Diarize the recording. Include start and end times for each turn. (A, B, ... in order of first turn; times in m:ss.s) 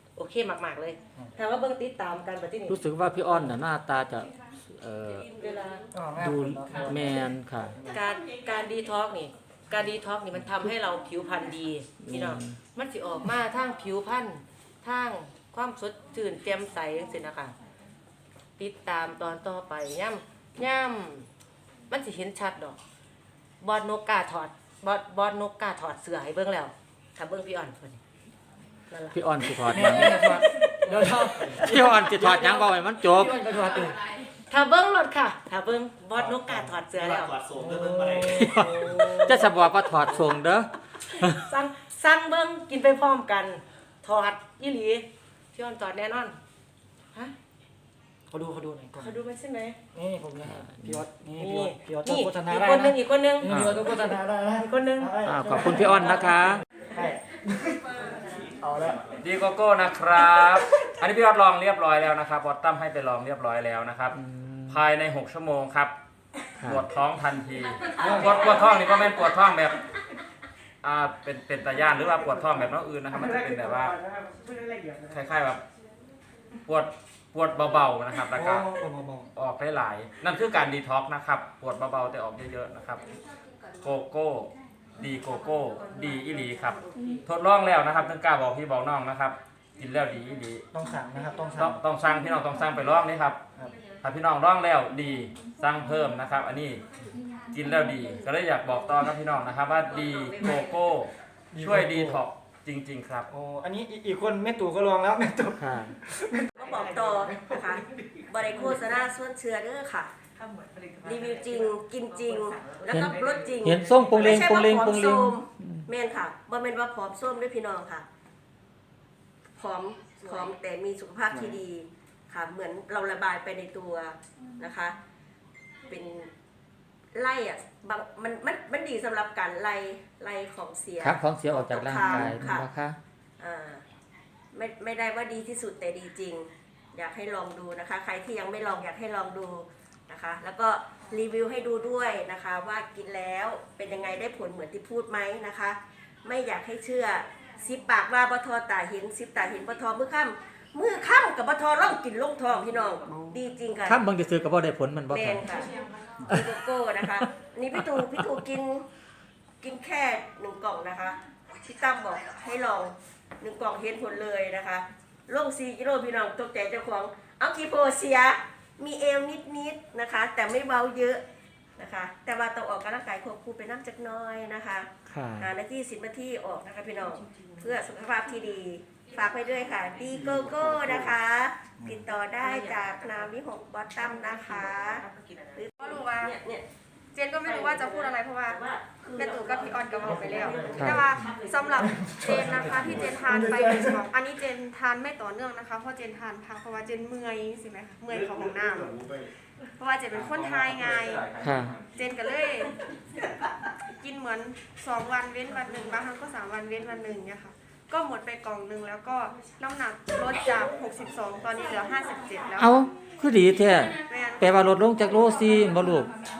0:00.2-0:02.8 A
0:02.7-0:05.3 B
0:05.4-0:05.8 A
0:05.9-0:08.0 C
0:06.2-0:07.7 B
0:07.9-0:17.6 A
0:12.0-0:12.6 B
0:18.6-0:21.3 A
0:21.9-0:22.8 A
0:23.6-0:28.0 A
0:28.9-0:31.3 A
0:29.1-0:30.2 B
0:29.7-0:32.6 C
0:31.2-0:33.4 B
0:33.1-0:34.0 C
0:34.5-0:37.4 A
0:37.5-0:39.2 C
0:38.4-0:41.4 B
0:38.6-0:39.5 A
0:40.0-0:40.3 A
0:41.3-0:46.4 A
0:48.3-0:49.2 C
0:49.0-0:49.8 A
0:49.9-0:57.8 C
0:50.4-0:51.0 B
0:51.4-0:55.2 A
0:55.2-0:56.6 B
0:58.6-0:59.0 C
0:59.2-1:04.2 D
1:04.1-1:04.8 B
1:04.7-1:06.0 D
1:06.6-1:06.8 B
1:06.6-1:09.8 D
1:08.0-1:08.4 C
1:10.8-1:14.0 D
1:13.1-1:15.1 A
1:15.1-1:15.6 D
1:16.7-1:18.7 D
1:18.3-1:19.3 C
1:19.4-1:23.0 D
1:23.8-1:30.6 D
1:26.7-1:27.2 A
1:30.7-1:31.8 C
1:31.6-1:33.4 D
1:34.0-1:36.8 D
1:37.5-1:43.3 D
1:40.0-1:40.8 E
1:41.5-1:42.2 C
1:43.3-1:46.6 C
1:45.6-1:46.0 B
1:46.6-1:50.2 E
1:46.6-1:49.0 A
1:50.4-1:54.5 A
1:51.0-1:58.1 E
1:52.9-1:55.9 B
1:59.6-2:05.0 E
2:00.2-2:00.5 A
2:05.9-2:06.3 E
2:07.1-2:12.7 E
2:11.0-2:13.0 B
2:13.4-2:13.8 E
2:14.5-2:34.1 E
2:33.9-2:35.5 B
2:35.1-2:35.7 E
2:36.3-2:38.9 E
2:37.9-2:38.2 B
2:39.6-2:51.2 E
2:51.8-3:06.7 E
2:55.1-2:55.5 B
3:02.4-3:03.3 A
3:04.0-3:05.7 A
3:05.8-3:06.4 F
3:07.1-3:08.6 F
3:07.4-3:13.3 E
3:09.2-3:19.0 F
3:10.0-3:10.9 C
3:10.7-3:11.3 B
3:11.8-3:14.0 C
3:19.8-3:21.2 F
3:21.4-3:21.7 B
3:21.9-3:22.7 F
3:23.9-3:32.7 F
3:32.6-3:36.1 B
3:34.0-3:34.8 F